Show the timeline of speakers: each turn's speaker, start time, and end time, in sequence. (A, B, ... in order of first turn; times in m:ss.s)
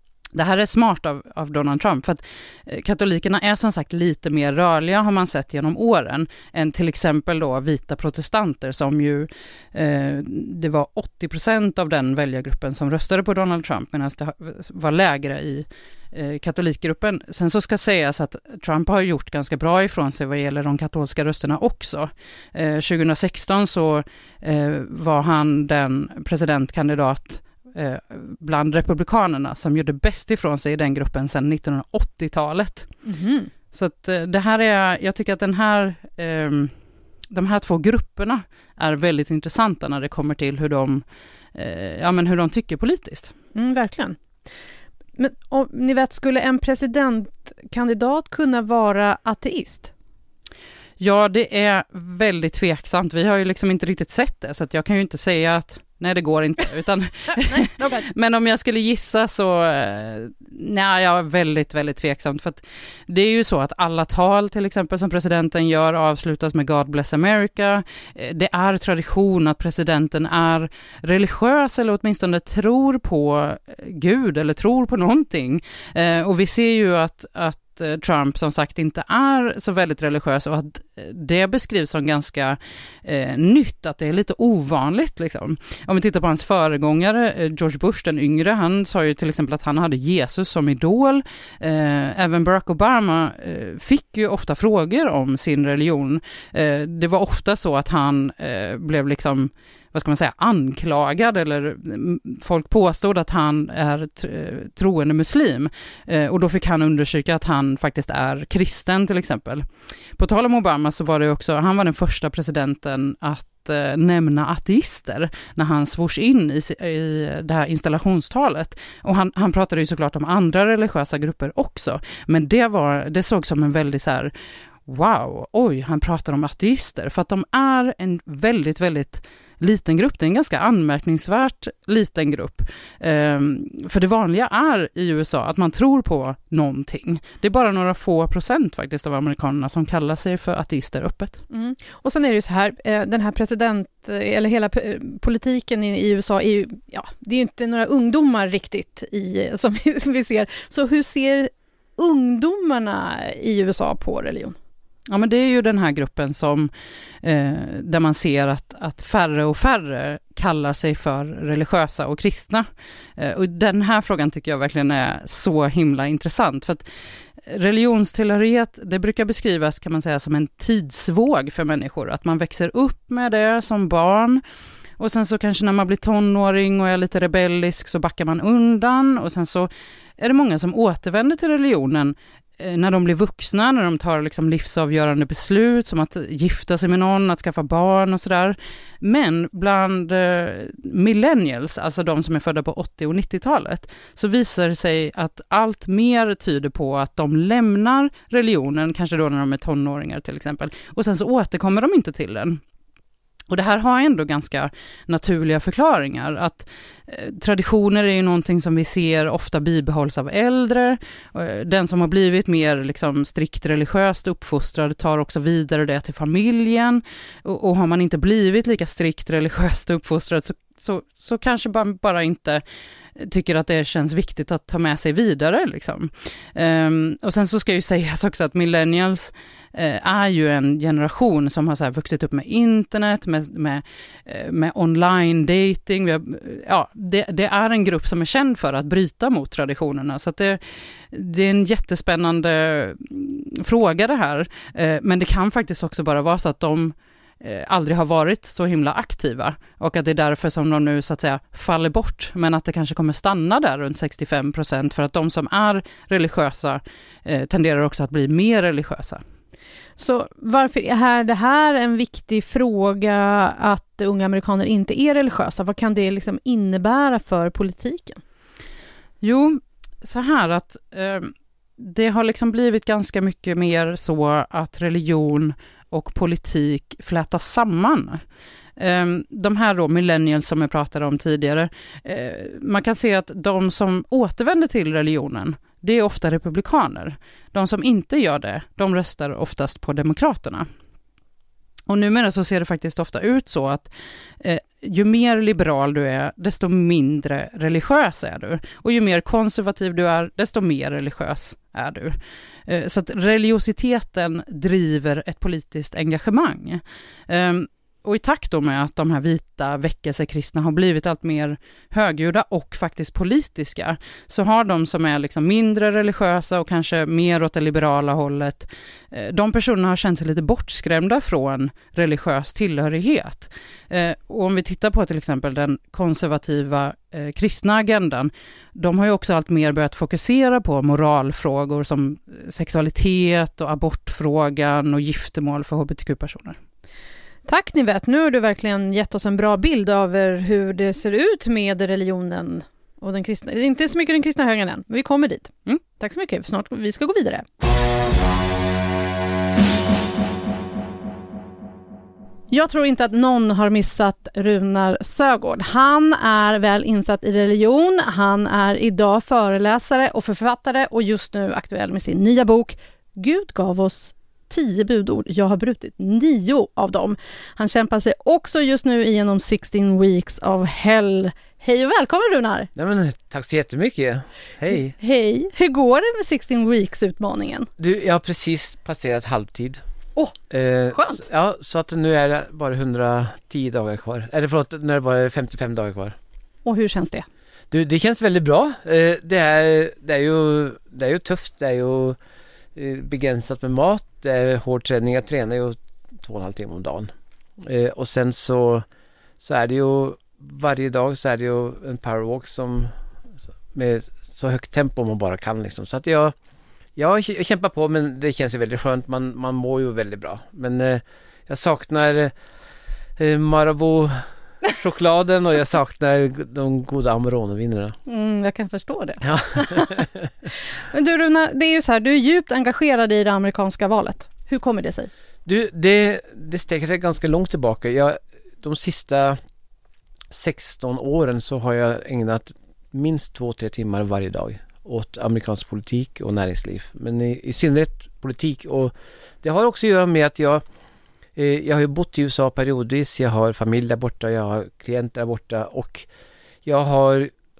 0:00.3-0:32.9 A
0:33.0-0:33.5 B
0:33.7-0:36.7 A
0:37.3-0:41.0 A
0:41.5-0:43.3 A
0:43.5-0:44.2 B
0:45.2-0:49.9 B
0:51.0-2:04.3 A
0:57.5-0:58.0 B
2:04.9-2:21.4 A
2:21.5-2:34.6 B
2:35.1-2:36.7 A
2:37.2-2:46.8 A
2:47.4-2:54.4 A
2:55.0-3:22.6 A
3:23.5-3:42.6 A
3:43.2-4:19.2 A
4:20.0-4:28.2 B
4:29.2-4:38.2 A
4:38.8-4:50.7 A
4:51.9-4:53.9 A
4:54.4-5:36.6 A
5:37.5-5:47.4 B
5:52.5-6:12.7 B
6:12.7-6:14.9 C
6:14.9-6:17.7 B
6:17.8-6:19.8 C
6:20.5-6:26.2 C
6:20.9-6:21.2 B
6:26.6-6:27.2 B
6:27.7-6:32.2 C
6:32.7-6:38.8 C
6:39.4-6:42.9 C
6:43.7-6:46.3 C
6:47.0-6:52.3 C
6:53.2-6:58.0 C
6:58.1-7:00.0 B
6:59.2-7:00.2 C
7:00.9-7:05.1 B
7:05.4-7:09.4 C
7:10.3-7:20.6 C
7:21.4-7:26.1 C
7:26.6-7:27.3 C